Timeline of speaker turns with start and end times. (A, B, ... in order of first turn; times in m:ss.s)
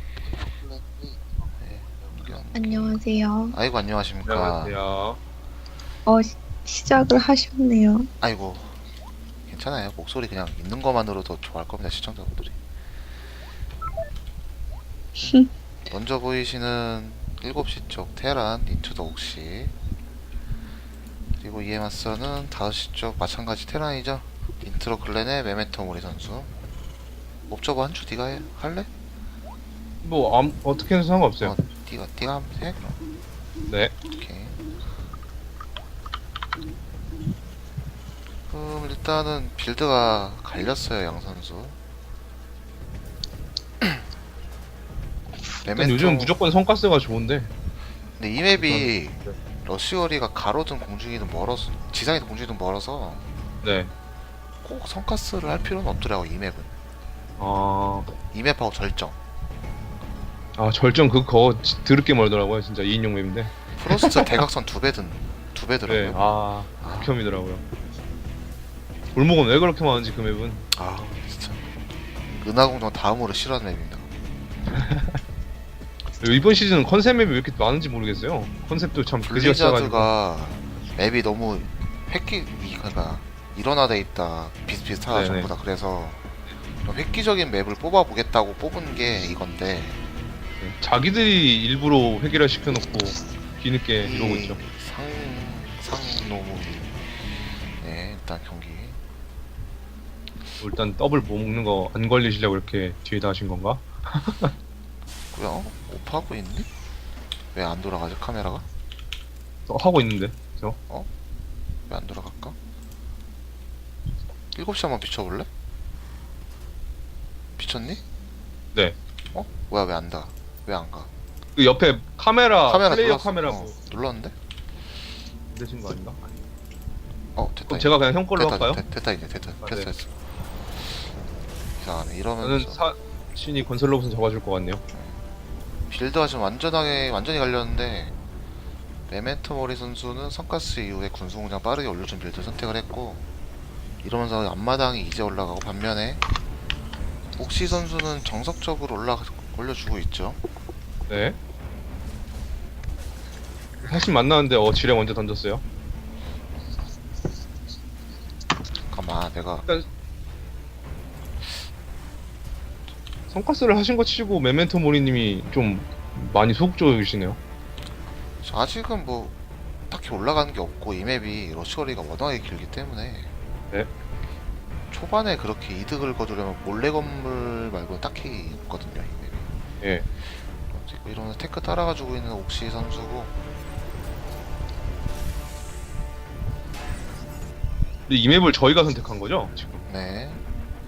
0:00.3-0:03.0 A
0:02.5-0:03.6 B
0:03.5-0:04.8 A
0:04.2-0:05.2 C
0:06.1-0:08.1 B
0:08.2-0:08.8 A
0:09.5-0:12.6 A
0:15.2-0:15.5 B
0:15.9-0:19.7 A
0:21.4-0:26.5 A
0:27.5-0:28.9 A
0:30.0-0:31.6 C
0:31.4-0:33.0 A
0:33.7-0:33.9 C
0:34.1-0:34.6 A
0:38.5-0:41.8 A
0:45.6-0:46.4 A
0:45.7-0:47.5 C
0:48.2-0:53.3 A
0:48.6-0:49.4 C
0:53.6-0:53.9 C
0:54.6-0:56.7 A
0:57.4-0:58.1 C
0:58.3-0:59.2 A
1:00.6-1:04.4 C
1:03.8-1:07.1 A
1:05.9-1:07.6 C
1:09.1-1:10.6 C
1:10.7-1:11.7 A
1:12.4-1:14.1 A
1:14.7-1:15.2 C
1:16.2-1:20.1 C
1:19.2-1:26.2 A
1:25.1-1:25.5 C
1:26.8-1:30.0 A
1:30.6-1:34.6 C
1:34.0-1:37.0 A
1:37.8-1:39.0 A
1:40.6-1:44.5 C
1:45.3-1:46.7 A
1:47.5-1:48.7 A
1:49.7-1:50.8 C
1:51.9-1:52.6 A
1:54.5-1:55.5 A
1:57.6-1:58.0 A
1:59.3-2:01.1 A
2:01.6-2:03.8 C
2:02.7-2:04.3 A
2:05.5-2:06.3 C
2:07.4-2:10.1 A
2:07.7-2:08.8 C
2:09.6-2:09.9 C
2:11.8-2:12.8 A
2:12.4-2:14.8 C
2:14.9-2:15.2 A
2:15.9-2:18.1 A
2:19.1-2:23.3 A
2:24.0-2:26.2 A
2:27.4-2:30.4 A
2:31.1-2:31.4 C
2:33.8-2:35.6 C
2:38.9-2:39.7 A
2:43.3-2:47.4 C
2:48.4-2:49.3 A
2:49.9-2:53.3 A
2:54.9-2:59.5 A
2:59.8-3:00.1 C
3:00.7-3:03.4 A
3:08.1-3:09.8 C
3:09.9-3:10.4 A